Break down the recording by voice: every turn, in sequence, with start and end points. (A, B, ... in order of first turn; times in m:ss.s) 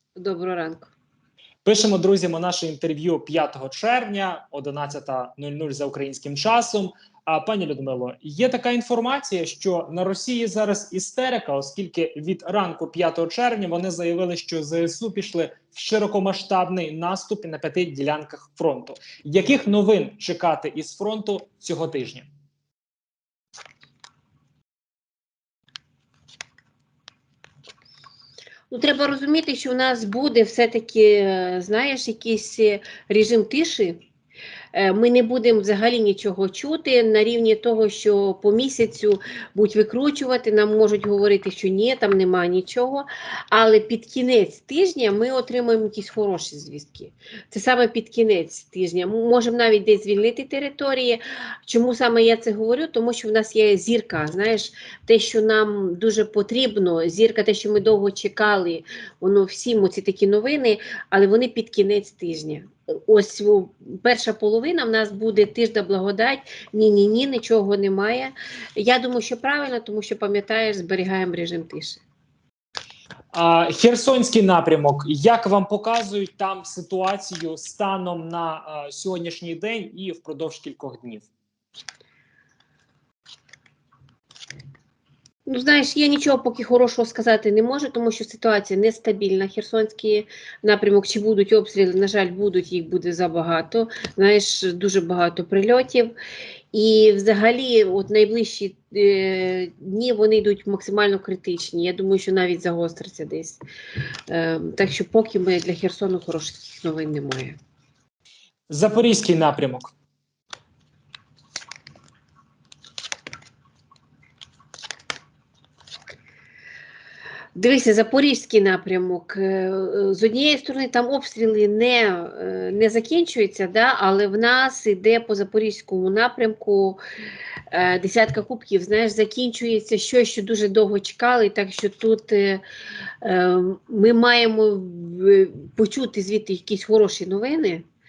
0:00.2-0:00.9 A
0:01.6-0:22.3 B
0:28.7-0:34.0 A
0:34.7-1:12.0 A
1:13.3-1:21.3 B
1:25.5-1:36.1 A
1:36.7-1:43.6 A
1:44.3-1:47.6 A
1:48.7-1:49.9 B
1:57.6-2:07.0 A
2:07.7-2:12.6 A
2:13.2-2:17.9 A